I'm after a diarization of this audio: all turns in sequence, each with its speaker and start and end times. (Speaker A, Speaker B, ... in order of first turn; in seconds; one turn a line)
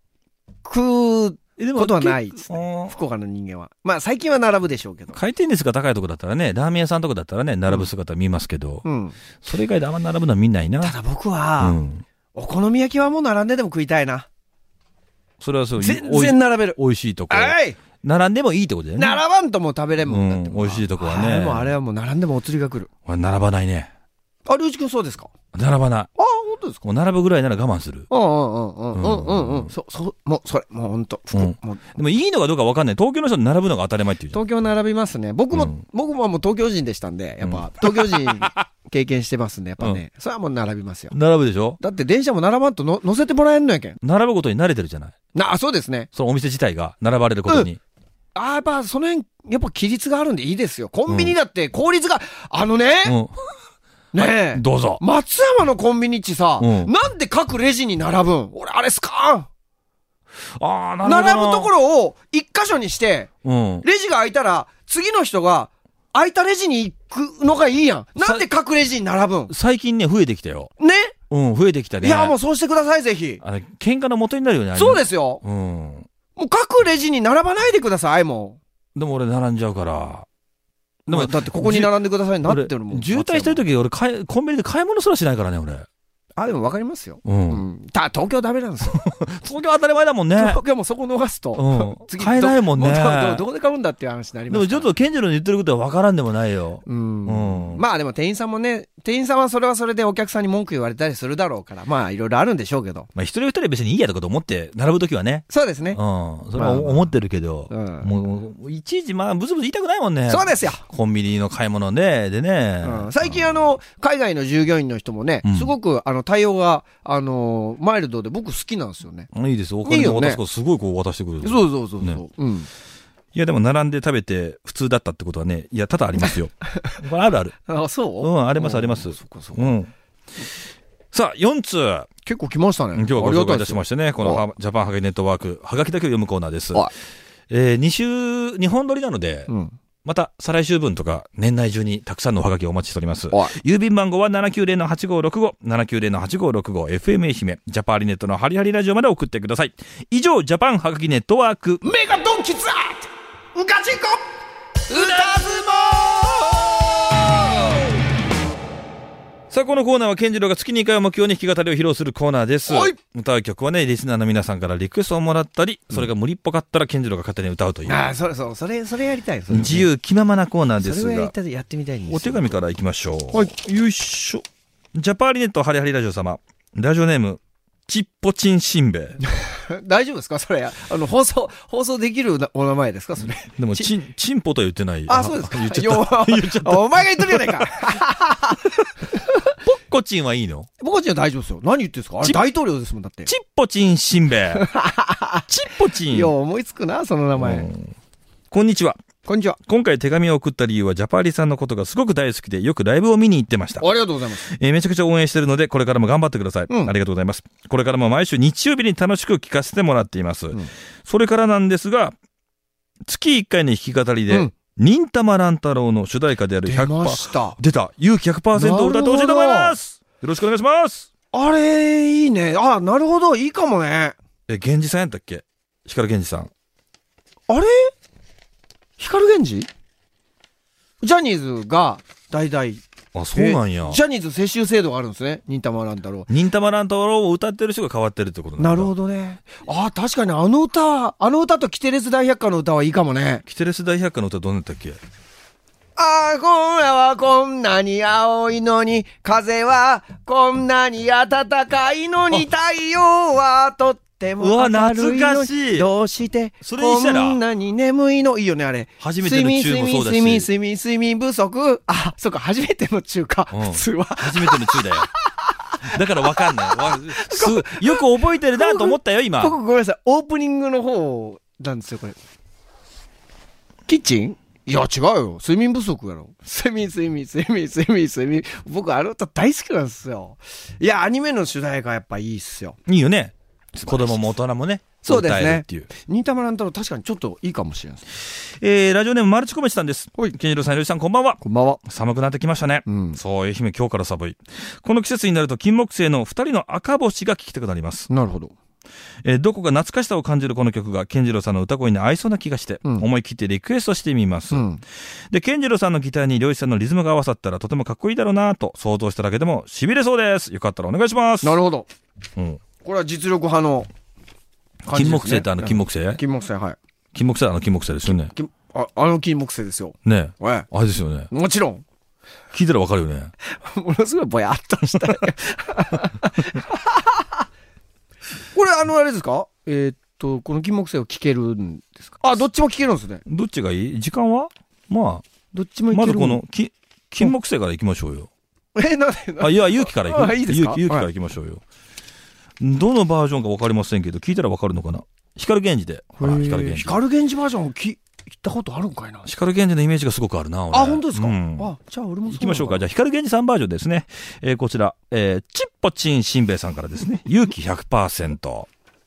Speaker A: 0.6-5.2
Speaker B: 1.6-2.9
Speaker B: 5.1-8.8
Speaker A: 8.8-9.2
Speaker B: 9.4-10.9
Speaker A: 10.8-11.8
Speaker B: 11.6-12.0
Speaker A: 12.3-14.3
Speaker B: 15.4-19.2
Speaker A: 15.8-16.8
Speaker A: 17.3-17.8
Speaker A: 19.0-22.9
Speaker B: 20.0-21.7
Speaker B: 23.1-23.9
Speaker A: 24.4-25.3
Speaker B: 25.5-26.1
Speaker A: 26.1-26.8
Speaker B: 26.8-28.1
Speaker A: 28.1-31.8
Speaker B: 28.9-29.7
Speaker B: 31.3-34.4
Speaker A: 34.3-41.1
Speaker B: 35.5-35.8
Speaker B: 37.4-38.6
Speaker B: 41.1-41.8
Speaker A: 41.8-44.0
Speaker B: 44.0-45.1
Speaker A: 45.3-46.1
Speaker B: 46.1-47.8
Speaker A: 47.5-47.7
Speaker A: 48.3-53.2
Speaker B: 51.1-51.3
Speaker B: 53.0-53.3
Speaker A: 54.1-59.5
Speaker B: 54.5-55.0
Speaker B: 56.6-56.9
Speaker B: 60.6-61.7
Speaker A: 61.0-63.3
Speaker B: 63.4-63.8
Speaker A: 63.8-69.5
Speaker B: 68.2-68.4
Speaker B: 69.5-70.7
Speaker A: 70.8-71.1
Speaker B: 71.3-72.3
Speaker A: 72.0-73.4
Speaker B: 73.4-76.1
Speaker A: 74.7-75.4
Speaker A: 76.3-78.6
Speaker B: 78.9-80.2
Speaker B: 81.1-85.8
Speaker A: 81.1-83.6
Speaker A: 86.3-89.0
Speaker B: 87.2-87.6
Speaker B: 88.8-90.6
Speaker A: 90.3-94.9
Speaker B: 91.5-93.4
Speaker B: 94.5-97.8
Speaker A: 96.8-103.1
Speaker B: 103.1-113.7
Speaker A: 105.5-106.0
Speaker A: 106.5-107.1
Speaker A: 107.7-108.1
Speaker A: 110.3-110.8
Speaker A: 112.8-119.3
Speaker B: 115.4-115.7
Speaker B: 119.3-122.2
Speaker A: 119.8-120.4
Speaker A: 121.4-122.7
Speaker B: 123.3-127.5
Speaker A: 127.7-129.7
Speaker B: 128.2-129.9
Speaker B: 131.1-132.1
Speaker A: 132.2-134.4
Speaker B: 132.9-136.9
Speaker B: 137.5-139.5
Speaker A: 139.5-139.7
Speaker B: 140.0-151.8
Speaker A: 151.8-154.2
Speaker A: 154.9-157.8
Speaker B: 154.9-155.4
Speaker B: 159.5-168.0
Speaker A: 162.7-162.9
Speaker A: 167.9-169.9
Speaker B: 169.5-171.3
Speaker A: 170.8-172.5
Speaker B: 172.1-174.4
Speaker B: 174.9-179.2
Speaker A: 179.2-183.9
Speaker B: 183.6-187.7
Speaker A: 185.1-189.2
Speaker B: 189.6-190.7
Speaker A: 190.8-193.3
Speaker B: 193.2-194.6
Speaker A: 194.6-195.4
Speaker B: 195.5-196.3
Speaker A: 196.0-197.7
Speaker B: 197.3-197.9
Speaker B: 198.5-199.0
Speaker A: 199.2-199.6
Speaker B: 199.7-203.8
Speaker A: 203.8-204.4
Speaker B: 204.4-212.1
Speaker B: 213.1-221.1
Speaker A: 216.7-217.6
Speaker A: 218.5-219.8
Speaker A: 221.3-224.2
Speaker B: 224.5-226.5
Speaker A: 227.5-227.9
Speaker A: 229.0-229.7
Speaker A: 231.0-232.8
Speaker B: 233.1-234.0
Speaker A: 233.3-236.3
Speaker B: 236.3-238.9
Speaker A: 238.6-243.4
Speaker B: 243.4-245.0
Speaker A: 245.9-264.9
Speaker B: 254.4-255.9
Speaker B: 256.6-257.4
Speaker B: 259.0-260.5
Speaker B: 263.5-265.1
Speaker B: 265.8-269.6
Speaker A: 266.4-268.0
Speaker A: 268.6-272.2
Speaker A: 273.9-282.8
Speaker B: 282.9-285.9
Speaker A: 283.9-284.1
Speaker A: 285.0-288.0
Speaker B: 288.4-298.1
Speaker A: 291.4-291.8
Speaker A: 292.9-293.2
Speaker A: 298.1-298.5
Speaker B: 299.2-304.6
Speaker A: 304.5-304.8
Speaker B: 305.3-311.6
Speaker A: 311.4-311.9
Speaker B: 312.4-312.6
Speaker A: 312.8-313.9
Speaker A: 314.9-316.8
Speaker B: 314.9-316.2
Speaker B: 317.1-318.3
Speaker A: 318.1-320.7
Speaker B: 320.0-321.3
Speaker A: 321.3-321.8
Speaker B: 322.5-323.3
Speaker A: 323.4-327.3
Speaker A: 328.5-333.2
Speaker B: 333.2-335.2
Speaker A: 335.5-336.4
Speaker B: 335.9-338.3
Speaker A: 338.7-341.1
Speaker B: 339.4-341.6
Speaker B: 342.6-347.0
Speaker A: 346.2-349.2
Speaker B: 349.2-351.7
Speaker A: 350.7-352.8
Speaker B: 352.3-358.7